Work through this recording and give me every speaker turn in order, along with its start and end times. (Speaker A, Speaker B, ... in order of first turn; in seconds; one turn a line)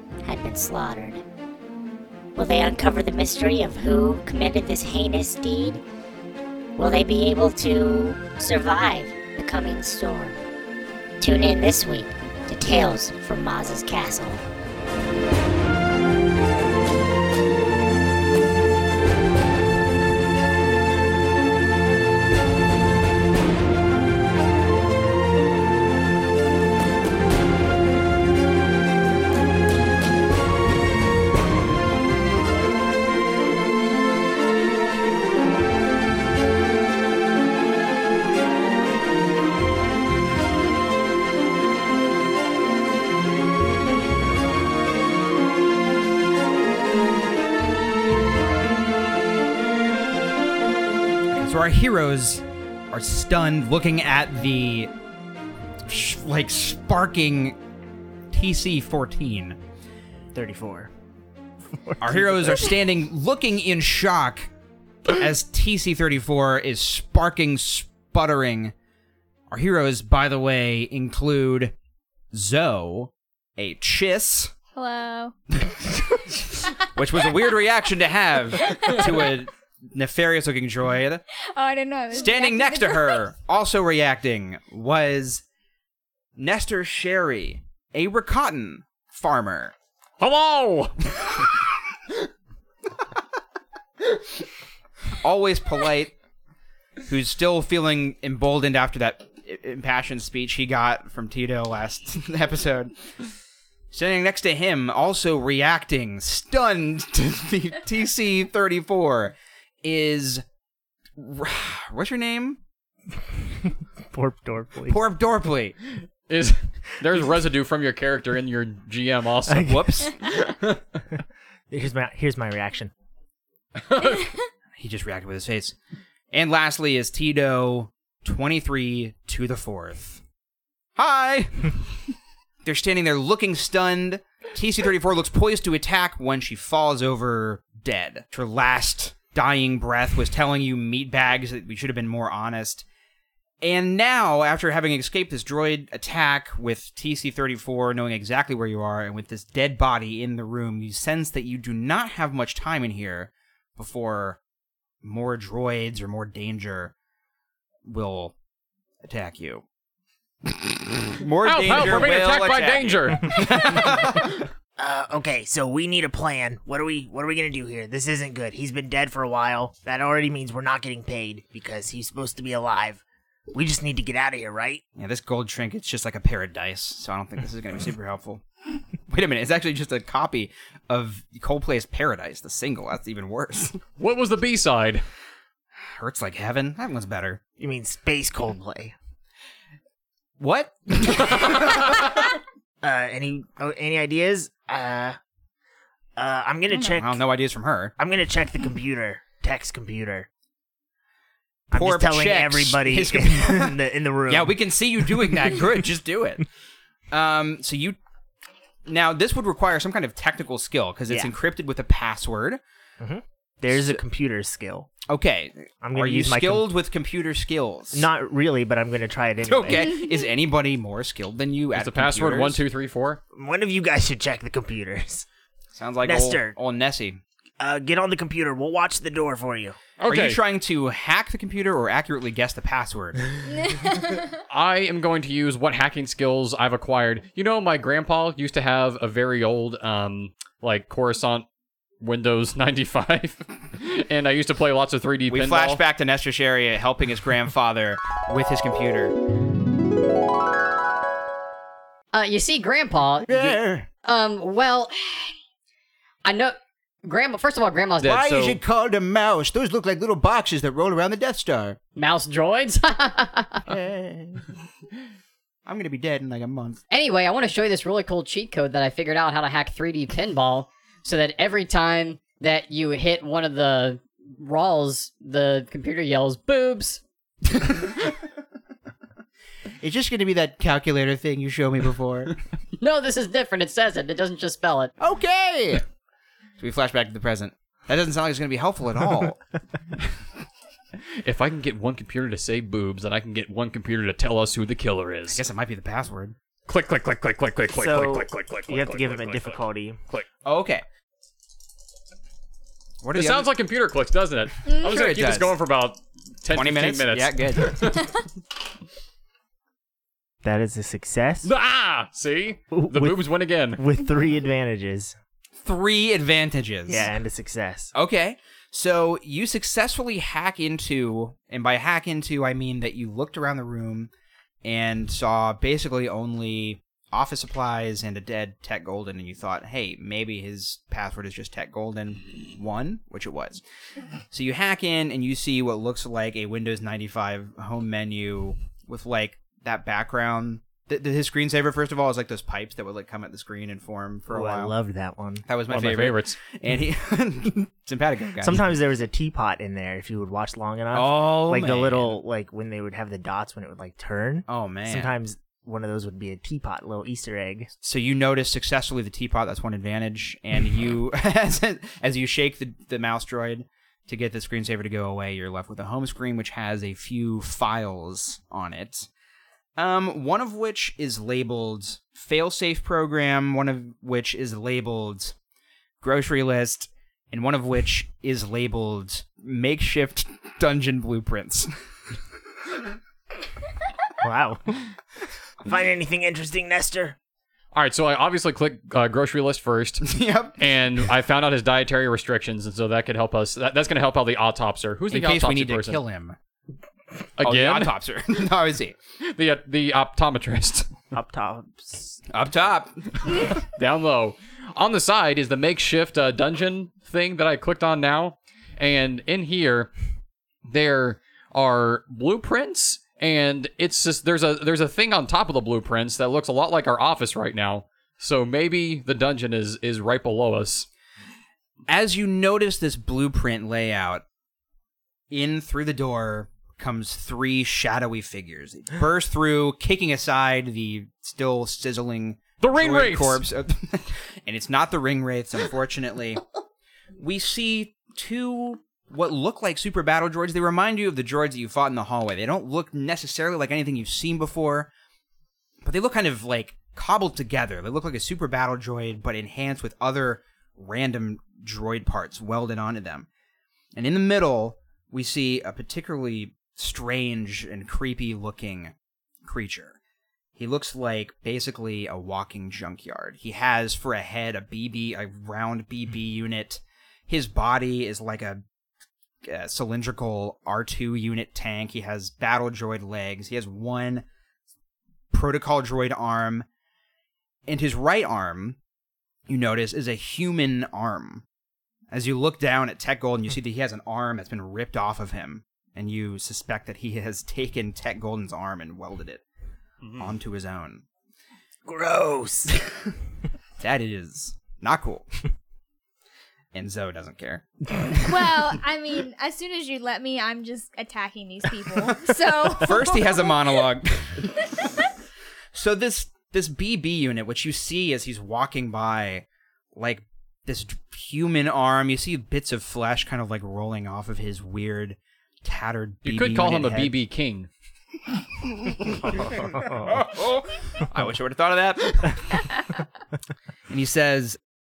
Speaker A: 0.2-1.2
Speaker A: 2.4-5.8
Speaker A: 6.8-10.4
Speaker A: 11.2-14.4
Speaker B: 51.3-54.9
Speaker B: 55.8-57.6
Speaker B: 58.3-59.6
Speaker C: 60.3-60.9
Speaker C: 61.7-62.8
Speaker B: 62.0-64.5
Speaker B: 65.1-68.7
Speaker B: 69.5-71.7
Speaker B: 72.3-74.5
Speaker D: 74.7-75.3
Speaker B: 76.9-81.2
Speaker D: 78.6-79.0
Speaker D: 81.4-83.3
Speaker B: 82.1-85.4
Speaker B: 86.3-89.7
Speaker E: 90.2-91.5
Speaker B: 95.2-96.2
Speaker B: 97.0-102.9
Speaker B: 103.9-110.4
Speaker B: 111.2-112.6
Speaker C: 114.1-115.0
Speaker B: 114.9-115.8
Speaker E: 116.3-119.7
Speaker C: 119.5-120.1
Speaker B: 119.6-120.2
Speaker C: 121.7-122.9
Speaker E: 123.9-124.3
Speaker B: 124.8-125.8
Speaker B: 126.3-130.2
Speaker B: 130.9-131.8
Speaker B: 132.6-142.8
Speaker B: 143.6-154.4
Speaker B: 155.0-156.9
Speaker B: 157.8-158.3
Speaker B: 159.0-159.6
Speaker B: 160.5-164.4
Speaker E: 161.4-163.5
Speaker C: 164.8-174.8
Speaker B: 174.9-178.4
Speaker B: 179.1-183.8
Speaker E: 184.0-185.0
Speaker B: 185.8-187.4
Speaker C: 187.6-188.9
Speaker B: 190.4-192.0
Speaker C: 192.8-195.2
Speaker C: 196.2-197.2
Speaker B: 196.8-197.9
Speaker C: 198.0-200.3
Speaker C: 201.7-204.6
Speaker B: 201.7-206.4
Speaker B: 207.1-208.0
Speaker B: 208.8-212.6
Speaker C: 213.0-214.9
Speaker B: 213.7-214.0
Speaker B: 215.1-218.1
Speaker C: 215.8-216.7
Speaker C: 217.9-220.0
Speaker B: 219.4-222.6
Speaker E: 221.7-223.2
Speaker C: 223.3-225.2
Speaker B: 225.7-227.2
Speaker C: 226.0-226.5
Speaker C: 227.6-229.8
Speaker E: 230.0-230.4
Speaker B: 230.1-233.2
Speaker D: 233.6-234.2
Speaker E: 234.5-241.4
Speaker E: 242.0-245.8
Speaker B: 245.3-249.1
Speaker F: 252.1-255.3
Speaker B: 253.3-253.8
Speaker F: 256.2-258.6
Speaker B: 258.0-261.8
Speaker F: 261.9-263.6
Speaker B: 263.7-264.4
Speaker B: 265.6-266.8
Speaker F: 266.9-277.0
Speaker B: 277.6-278.1
Speaker B: 279.8-282.4
Speaker F: 282.8-284.9
Speaker B: 285.0-285.8
Speaker B: 286.6-289.4
Speaker E: 291.2-295.4
Speaker B: 295.3-296.4
Speaker E: 296.6-300.2
Speaker C: 297.7-300.0
Speaker B: 300.4-300.8
Speaker B: 303.0-303.5
Speaker E: 303.1-308.2
Speaker B: 304.8-305.5
Speaker B: 306.5-307.9
Speaker C: 310.4-311.5
Speaker E: 311.4-313.8
Speaker C: 312.7-313.2
Speaker C: 313.7-315.1
Speaker B: 315.6-317.1
Speaker C: 316.9-317.9
Speaker B: 317.9-324.1
Speaker B: 324.6-333.6
Speaker B: 334.3-344.7
Speaker C: 344.3-345.4
Speaker B: 345.4-348.8
Speaker E: 345.7-346.4
Speaker C: 348.4-357.7
Speaker B: 350.9-352.2
Speaker B: 354.5-355.1
Speaker B: 357.8-369.1
Speaker B: 369.8-375.3
Speaker B: 376.0-381.7
Speaker C: 384.2-384.9
Speaker C: 385.6-387.1
Speaker E: 387.7-396.0
Speaker B: 390.0-390.6
Speaker B: 395.1-396.4
Speaker E: 397.4-397.9
Speaker B: 397.4-398.9
Speaker E: 399.2-400.9
Speaker C: 401.1-402.2
Speaker B: 402.3-403.4
Speaker E: 403.8-409.9
Speaker E: 410.7-420.9
Speaker B: 421.9-424.2
Speaker B: 425.3-436.4
Speaker E: 432.6-433.4
Speaker B: 437.2-444.9
Speaker B: 445.8-453.3
Speaker B: 453.9-460.0
Speaker B: 460.5-468.6
Speaker B: 469.4-474.2
Speaker B: 475.3-476.7
Speaker B: 477.7-478.8
Speaker B: 479.5-481.4
Speaker B: 482.1-489.4
Speaker E: 490.0-490.3
Speaker B: 490.2-491.0
Speaker C: 491.9-492.9
Speaker B: 493.8-495.3
Speaker B: 496.7-497.6
Speaker D: 498.2-503.5
Speaker B: 502.6-504.7
Speaker B: 505.7-517.1
Speaker E: 516.2-517.7
Speaker C: 519.2-520.2
Speaker B: 519.4-522.6
Speaker B: 523.9-524.6